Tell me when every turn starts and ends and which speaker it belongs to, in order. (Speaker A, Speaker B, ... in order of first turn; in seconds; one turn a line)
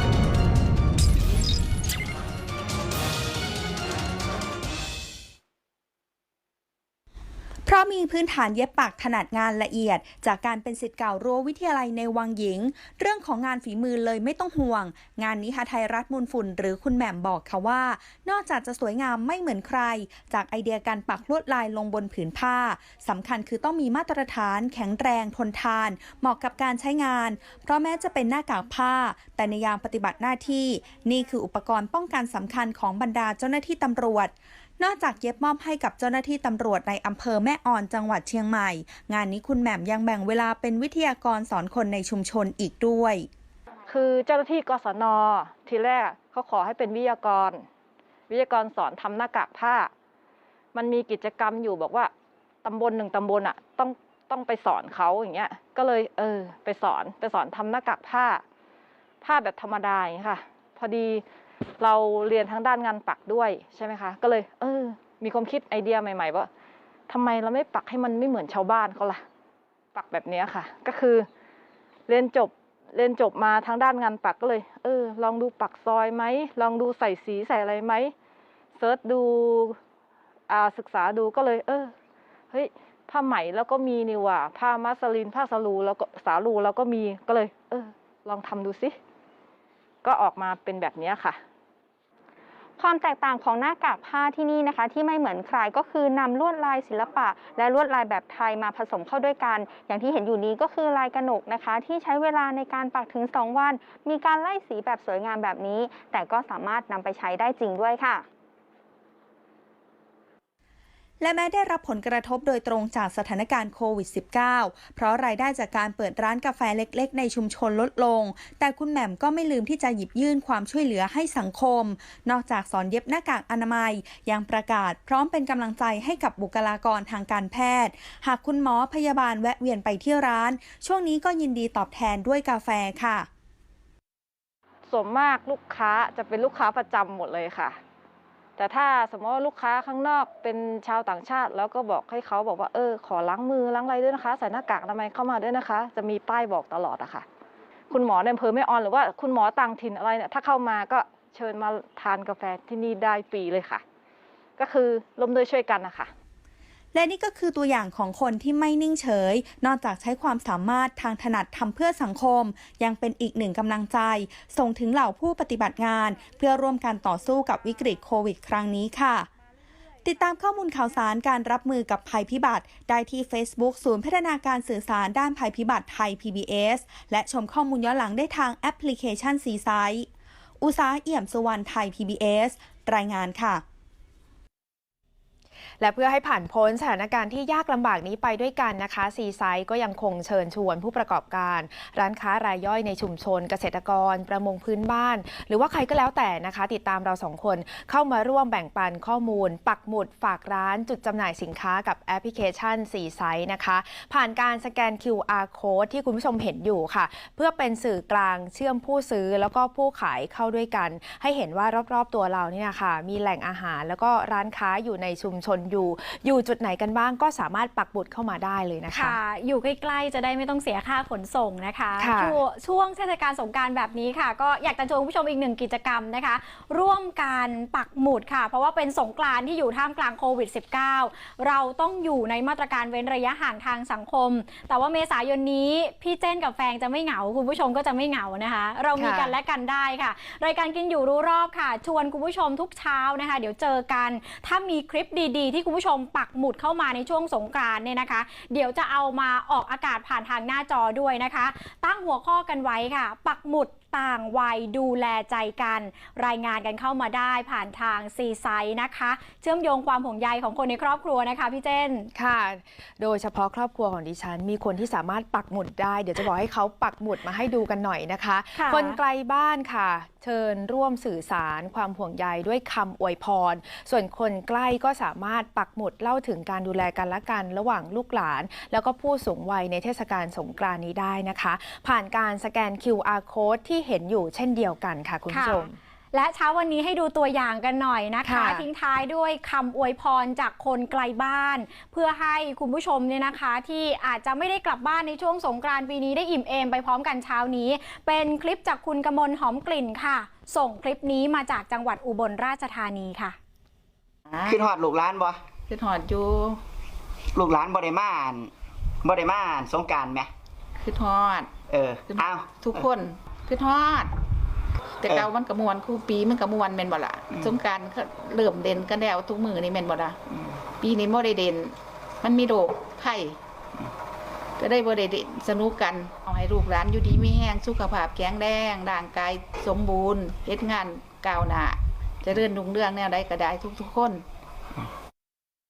Speaker A: 7.7-43.3
Speaker B: 43.9-47.7
Speaker B: 48.3-49.9
Speaker B: 50.7-52.1
Speaker B: 52.6-58.4
Speaker B: 59.2-61.2
Speaker B: 61.8-66.5
Speaker B: 67.1-69.2
Speaker B: 69.9-71.3
Speaker B: 72.1-78.1
Speaker B: 78.8-79.8
Speaker B: 80.5-81.9
Speaker B: 82.5-89.0
Speaker B: 90.0-91.4
Speaker C: 92.8-108.2
Speaker A: 111.2-133.3
Speaker B: 134.9-137.8
Speaker B: 138.6-147.2
Speaker B: 147.9-153.8
Speaker B: 154.6-156.1
Speaker A: 156.9-169.3
Speaker A: 170.0-180.1
Speaker A: 180.6-183.6
Speaker D: 185.8-219.2
Speaker E: 218.9-262.1
Speaker D: 222.0-222.4
Speaker D: 239.0-239.3
Speaker D: 262.1-285.8
Speaker E: 268.6-269.0
Speaker E: 285.3-303.4
Speaker D: 288.2-288.7
Speaker F: 304.3-304.6
Speaker G: 304.5-305.4
Speaker F: 305.7-306.6
Speaker G: 307.3-308.5
Speaker G: 309.0-310.3
Speaker F: 310.8-314.1
Speaker G: 311.7-312.8
Speaker F: 315.0-320.2
Speaker F: 320.8-323.4
Speaker F: 324.6-334.2